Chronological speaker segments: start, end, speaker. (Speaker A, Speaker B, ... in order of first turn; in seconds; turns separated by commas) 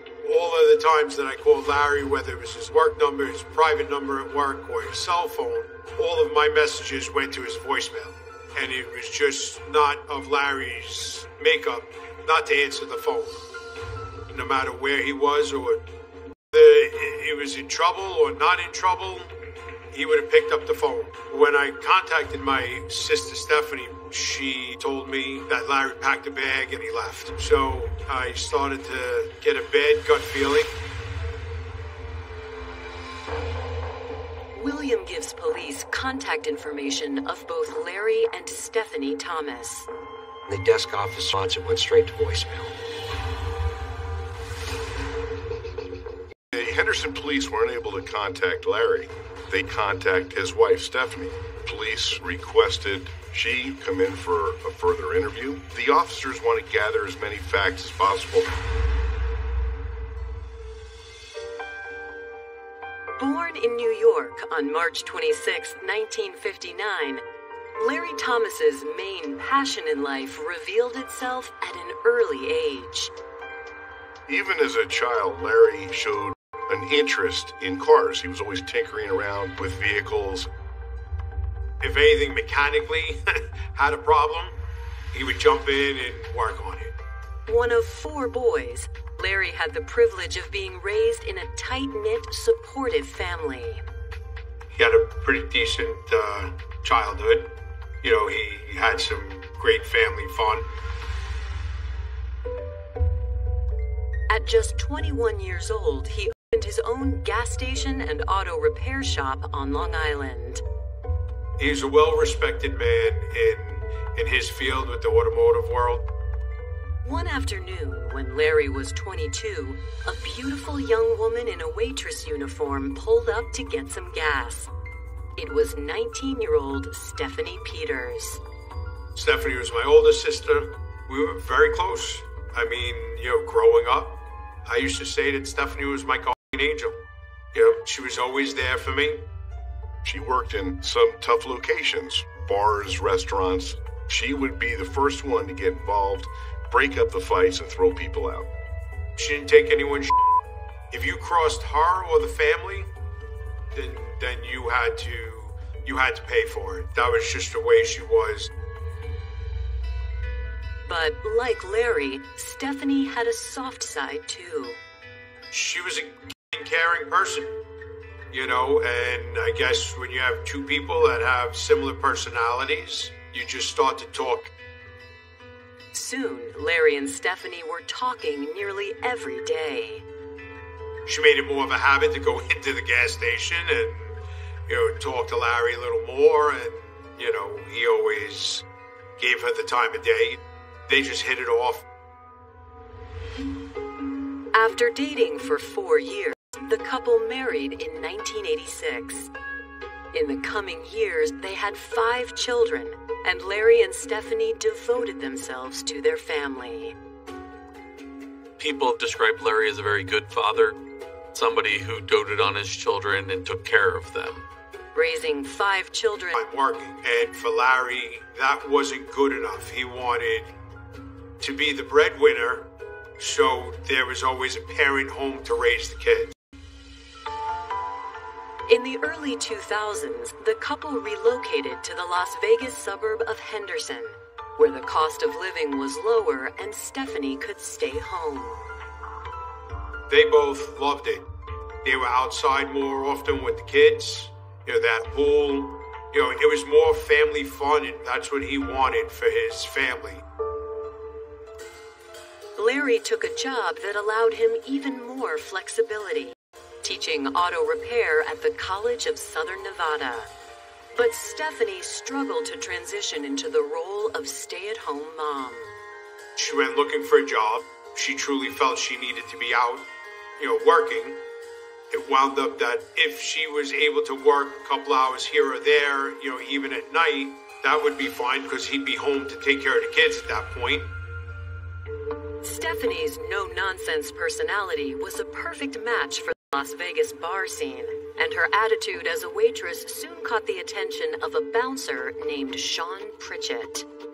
Speaker A: 0.2-13.4, Speaker A: 14.3-15.8, Speaker A: 16.5-19.3, Speaker A: 19.9-30.7, Speaker B: 34.5-39.9, Speaker C: 40.5-42.7, Speaker D: 46.5-58.5, Speaker B: 63.2-67.2, Speaker B: 67.8-73.1, Speaker D: 74.3-80.5, Speaker A: 81.8-84.5, Speaker A: 85.1-86.9, Speaker B: 87.5-93.8, Speaker A: 94.7-100.6, Speaker B: 104.3-110.6, Speaker A: 111.6-116.0, Speaker B: 117.0-124.7, Speaker B: 125.4-128.4, Speaker A: 129.2-137.0, Speaker A: 137.5-139.2, Speaker D: 140.0-148.5, Speaker A: 149.2-150.2, Speaker A: 150.9-152.9, Speaker A: 153.7-158.5, Speaker B: 160.8-164.8, Speaker A: 165.5-167.6, Speaker A: 168.3-174.5, Speaker B: 175.9-180.0, Speaker A: 181.1-188.6, Speaker A: 189.2-191.8, Speaker B: 194.5-199.3, Speaker B: 200.1-206.9, Speaker E: 208.6-210.8, Speaker E: 211.3-214.4, Speaker B: 214.9-216.4, Speaker A: 216.3-220.5, Speaker A: 221.4-226.3, Speaker B: 228.7-238.6, Speaker A: 240.1-241.3, Speaker A: 241.8-250.2, Speaker B: 252.6-260.3, Speaker B: 260.9-265.7, Speaker A: 266.4-269.9, Speaker A: 270.4-271.2, Speaker A: 271.9-280.9, Speaker B: 282.4-293.9